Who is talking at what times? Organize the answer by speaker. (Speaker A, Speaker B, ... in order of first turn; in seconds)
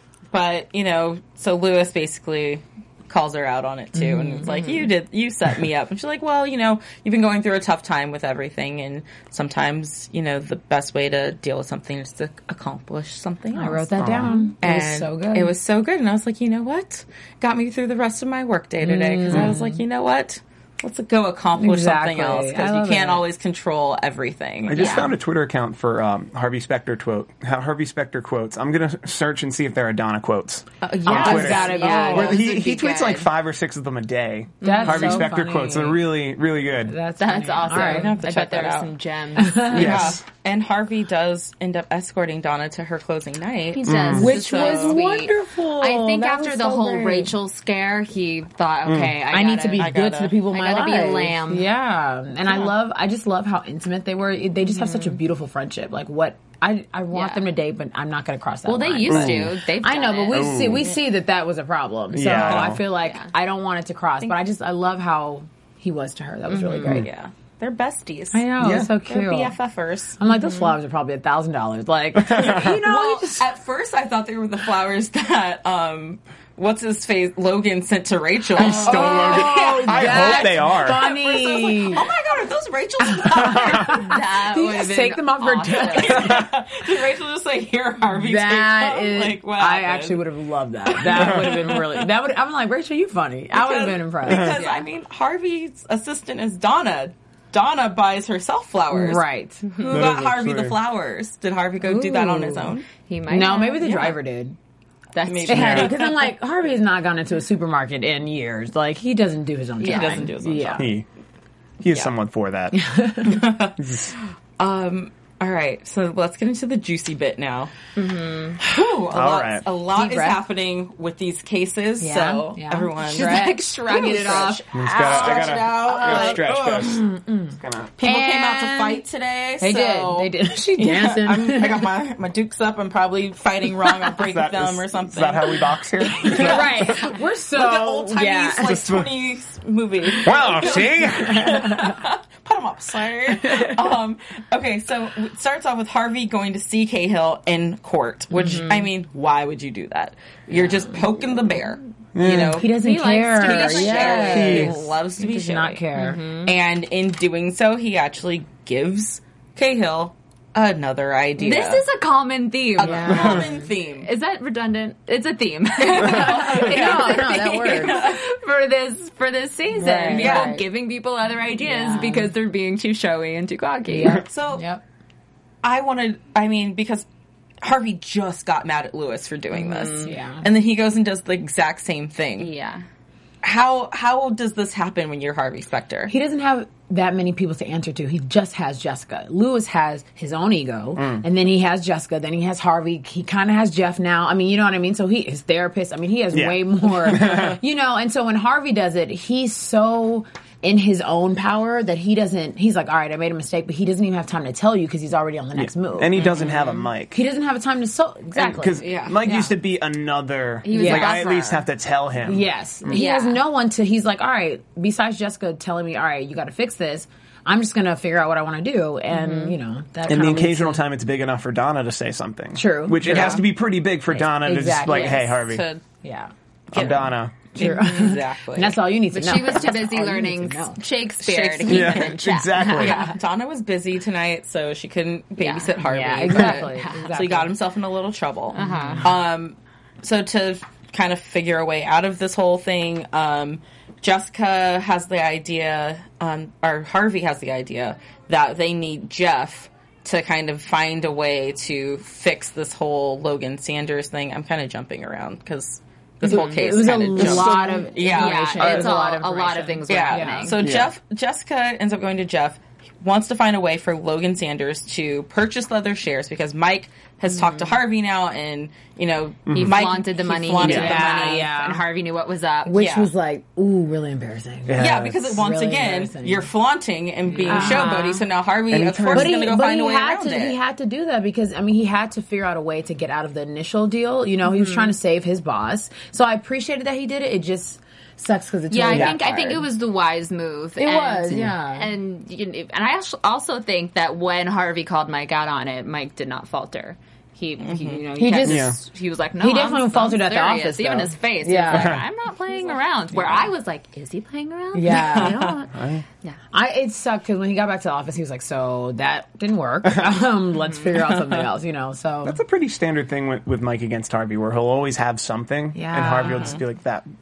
Speaker A: 0.3-25.0, 30.8-32.4, 37.7-38.9, 39.6-45.0, 49.8-50.4, 66.8-70.2, 72.3-84.1, 85.7-90.2, 90.9-92.1, 93.5-102.9, 105.2-106.3, 109.8-110.9, 113.2-117.7, 118.6-127.0, 128.0-155.8, 156.4-161.8, 162.8-164.1, 165.9-168.2, 170.1-170.6, 174.2-174.7, 175.6-177.1, 177.6-182.5, 183.4-186.1, 206.2-206.5, 208.8-209.2, 226.7-228.8, 231.2-258.9, 259.9-271.5, 272.8-273.1, 274.8-280.6, 297.6-298.0, 304.9-305.6, 310.9-311.5, 316.2-316.6
Speaker B: 4.0-4.5, 13.5-15.5, 18.8-19.8, 21.6-23.2, 31.1-32.5, 34.6-36.0, 36.9-38.2, 39.4-40.1, 44.1-47.4, 49.3-67.1, 68.3-69.5, 70.2-73.5, 78.6-82.1, 83.0-86.5, 88.1-94.6, 98.9-99.7, 101.8-102.7, 103.3-104.6, 105.5-110.9, 112.7-113.4, 119.9-120.4, 122.0-129.0, 129.6-131.9, 136.1-138.8, 140.6-141.9, 152.4-156.2, 162.8-163.7, 165.9-168.0, 169.7-170.7, 171.6-172.3, 173.9-174.8, 180.0-180.5, 186.1-206.3, 207.1-209.5, 210.7-211.2, 212.2-220.8, 222.6-223.4, 224.1-225.4, 226.0-226.9, 227.5-230.8, 235.8-237.5, 238.6-239.1, 256.2-260.6, 270.6-271.8, 272.7-276.5, 277.4-278.0, 279.1-289.6, 290.8-291.9, 298.2-298.7, 299.4-302.0, 303.1-303.4, 304.7-305.5, 306.5-312.4, 315.8-316.6
Speaker C: 4.5-4.8, 24.8-25.1, 31.1-33.3, 34.6-35.3, 37.2-39.9, 43.7-49.9, 50.5-51.7, 54.7-55.2, 57.1-57.5, 58.7-60.9, 62.8-63.3, 66.5-66.9, 70.3-70.8, 83.9-86.4, 94.6-94.8, 103.1-104.2, 105.1-105.9, 109.8-110.3, 118.0-118.6, 123.1-124.6, 148.3-148.9, 152.8-154.6, 156.0-156.5, 161.4-163.5, 164.0-174.2, 179.6-180.1, 182.4-182.8, 206.2-206.7, 210.6-211.7, 212.9-213.4, 219.1-219.6, 223.1-223.4, 224.9-225.8, 229.1-233.1, 235.4-235.7, 236.3-237.1, 238.5-239.1, 257.2-260.6, 267.3-267.7, 269.5-272.8, 277.4-278.2, 284.5-284.9, 288.7-306.4
Speaker D: 14.0-14.4, 24.7-37.0, 39.7-40.2, 43.9-44.3, 48.9-49.1, 59.1-59.5, 60.3-60.9, 62.1-62.8, 68.6-68.9, 72.2-72.8, 78.5-81.1, 91.2-91.4, 94.3-94.6, 99.9-100.8, 105.5-105.9, 110.8-111.1, 111.8-112.8, 113.8-114.1, 119.1-119.7, 124.7-127.0, 127.6-127.9, 134.2-137.0, 138.6-139.2, 140.2-141.8, 152.2-152.6, 154.3-154.8, 191.0-191.2, 196.3-197.6, 205.6-207.2, 208.3-213.0, 220.1-225.6, 226.7-227.4, 231.7-233.1, 260.6-260.9, 269.5-269.8, 270.6-271.0, 274.7-275.3, 278.7-279.6, 298.4-298.8, 301.7-302.0, 305.7-306.1, 312.2-317.1